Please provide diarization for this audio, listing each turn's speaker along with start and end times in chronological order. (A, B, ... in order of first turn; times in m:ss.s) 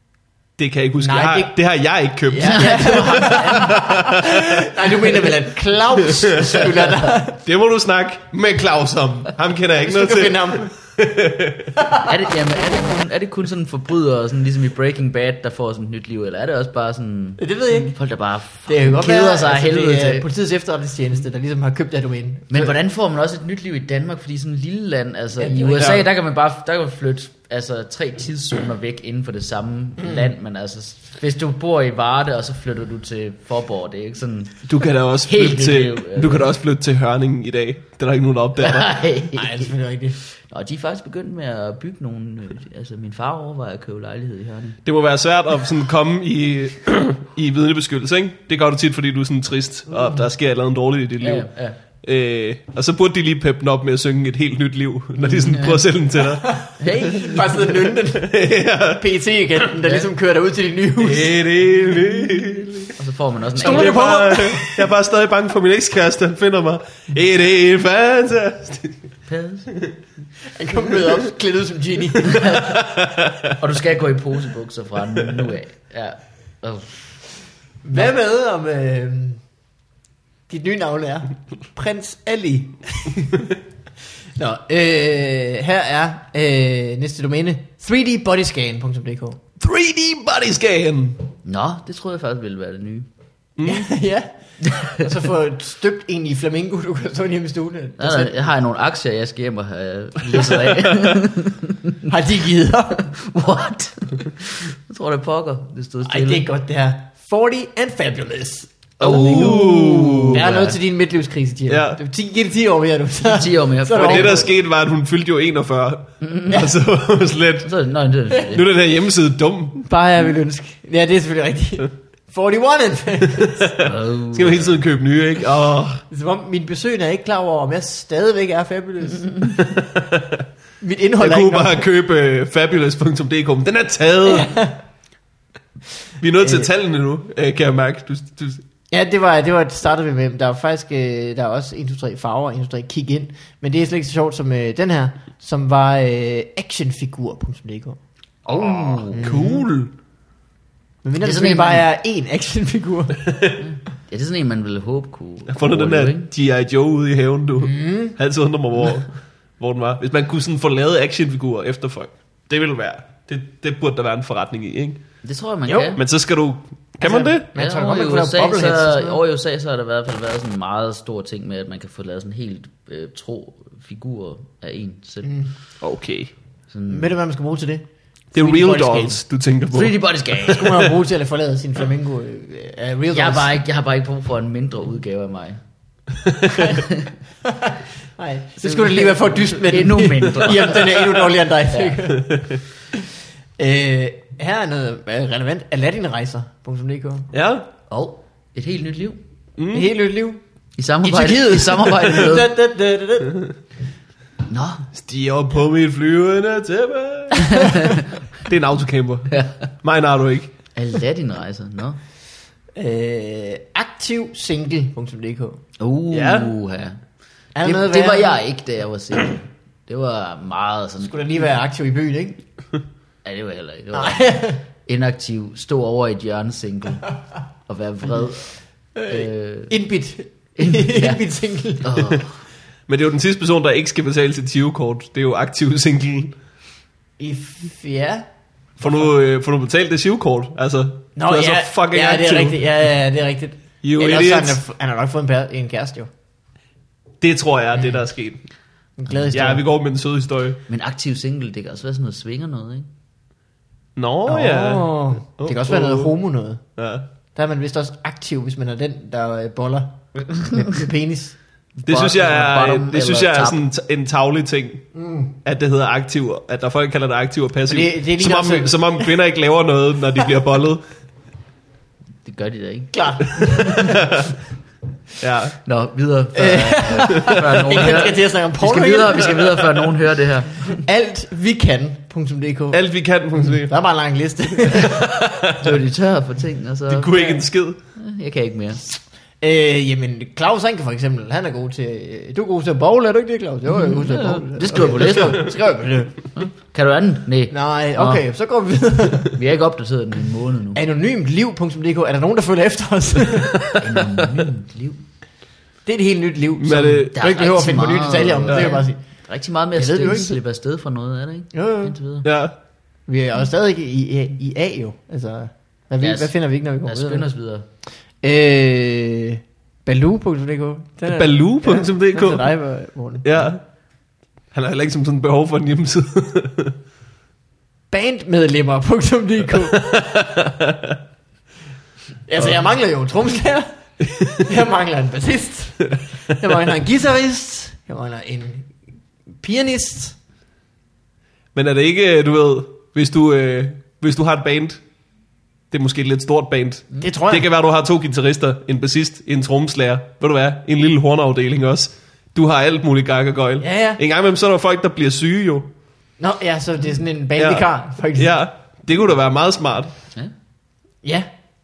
0:00.6-0:05.2 A
0:01.0-0:01.5 B
0:02.3-0:07.4 B
0:02.4-0:04.0 C
0:06.0-0:11.7 A
0:09.8-0:10.7 B
0:11.9-0:12.1 B
0:12.0-0:20.3 C
0:17.4-0:18.0 B
0:18.7-0:22.8 B
0:22.5-0:34.6 C
0:25.4-0:26.0 B
0:25.8-0:26.0 A
0:30.0-0:30.3 B
0:34.7-0:38.9 A
0:35.2-0:36.5 C
0:38.6-0:39.7 C
0:39.4-0:40.2 B
0:40.4-0:44.8 C
0:44.8-0:51.5 A
0:51.2-0:51.8 C
0:52.0-0:56.7 A
0:55.2-0:55.8 C
0:56.4-0:58.4 B
0:56.8-0:57.6 C
0:58.0-0:59.0 A
0:59.0-1:01.3 B
0:59.8-1:00.1 C
1:01.0-1:02.9 A
1:03.0-1:04.1 C
1:03.6-1:04.9 B
1:03.6-1:09.0 A
1:09.3-1:09.7 C
1:10.5-1:12.8 B
1:12.2-1:12.8 C
1:12.4-1:13.6 A
1:13.5-1:17.2 C
1:17.8-1:19.4 B
1:20.5-1:23.5 B
1:24.4-1:29.4 B
1:29.6-1:31.2 A
1:31.4-1:33.1 C
1:33.6-1:33.9 A
1:33.7-1:38.4 B
1:34.6-1:35.1 C
1:38.0-1:42.1 C
1:42.1-1:43.1 B
1:43.1-1:46.5 C
1:46.1-1:54.5 B
1:49.0-1:50.4 A
1:49.0-1:50.8 C
1:51.7-1:52.0 A
1:53.2-1:54.5 C
1:54.0-1:57.7 A
1:56.2-1:56.7 C
1:57.6-1:58.6 C
1:58.4-1:59.8 A
1:59.8-2:03.8 B
2:03.3-2:06.0 A
2:03.8-2:04.8 C
2:06.1-2:09.6 B
2:09.4-2:10.4 A
2:10.8-2:11.8 B
2:11.2-2:14.5 A
2:14.3-2:14.8 B
2:16.2-2:18.6 A
2:16.4-2:16.7 B
2:18.9-2:28.0 B
2:28.5-2:29.4 C
2:28.6-2:29.9 A
2:29.1-2:29.7 B
2:31.0-2:33.3 B
2:31.2-2:31.9 C
2:33.2-2:33.6 A
2:33.6-2:36.3 C
2:35.5-2:45.0 A
2:37.6-2:38.2 B
2:45.2-2:46.0 C
2:45.7-2:46.0 B
2:46.0-2:47.5 A
2:47.0-2:49.2 B
2:47.6-2:55.3 C
2:55.2-2:55.5 B
2:55.8-2:56.3 A
2:56.7-2:57.1 C
2:56.9-2:59.2 B
2:58.3-3:00.5 A
2:59.7-3:00.9 C
3:00.4-3:03.6 B
3:03.1-3:05.6 C
3:06.2-3:06.8 A
3:06.6-3:07.1 C
3:07.4-3:13.0 B
3:08.6-3:12.0 C
3:12.1-3:12.6 A
3:13.6-3:17.3 B
3:17.3-3:17.7 A
3:17.9-3:19.2 C
3:19.6-3:19.9 A
3:19.7-3:20.4 B
3:20.8-3:22.5 C
3:21.0-3:23.6 B
3:24.5-3:24.8 C
3:24.9-3:30.5 A
3:27.5-3:28.0 C
3:29.3-3:29.7 C
3:30.8-3:32.0 C
3:32.8-3:35.6 B
3:35.8-3:37.0 C
3:36.1-3:36.6 A
3:37.6-3:38.4 B
3:37.6-3:41.2 C
3:41.0-3:42.4 B
3:43.2-3:47.1 C
3:43.9-3:44.6 B
3:47.7-3:48.5 C
3:49.0-3:52.0 B
3:49.1-3:49.7 C
3:50.6-3:51.2 C
3:51.8-3:52.4 C
3:52.9-3:56.4 A
3:57.2-3:58.3 B
3:58.8-4:02.6 A
4:01.2-4:06.1 B
4:03.8-4:04.6 A
4:07.2-4:08.4 A
4:09.0-4:09.6 B
4:09.3-4:10.6 A
4:10.7-4:12.9 C
4:14.0-4:16.1 A
4:14.3-4:16.6 B
4:16.8-4:17.0 A
4:17.4-4:21.4 B
4:21.8-4:23.6 C
4:21.9-4:24.8 A
4:25.0-4:25.3 B
4:25.4-4:30.8 A
4:27.7-4:29.1 B
4:32.2-4:34.0 C
4:32.9-4:34.1 B
4:33.7-4:34.3 A
4:35.2-4:35.6 A
4:35.6-4:40.8 C
4:36.4-4:39.8 B
4:40.7-4:42.8 B
4:42.7-4:43.7 A
4:43.6-4:45.1 B
4:44.7-4:45.7 A
4:45.6-4:47.4 C
4:46.9-4:47.8 A
4:48.0-4:48.8 C
4:49.4-4:56.4 B
4:53.7-4:55.6 C
4:56.4-4:58.2 C
4:57.5-4:59.4 B
4:59.3-5:00.8 C
5:00.8-5:03.7 B
5:03.8-5:05.0 C
5:05.9-5:09.0 B
5:06.6-5:07.2 A
5:07.1-5:12.3 C
5:08.5-5:08.8 A
5:09.8-5:10.4 B
5:11.5-5:12.0 B
5:12.2-5:12.5 A
5:13.1-5:17.3 B
5:16.0-5:16.3 C
5:16.8-5:17.7 C
5:18.2-5:23.3 B
5:21.0-5:22.5 A
5:23.2-5:23.6 A
5:24.5-5:26.8 A
5:27.9-5:30.0 B
5:29.6-5:31.0 A
5:32.3-5:33.7 B
5:34.0-5:34.4 A
5:34.3-5:38.7 B
5:39.4-5:40.2 B
5:41.6-5:44.8 A
5:45.7-5:55.7 A
5:47.0-5:47.5 B
5:53.6-5:54.0 B
5:56.2-5:58.3 B
5:57.4-5:59.9 A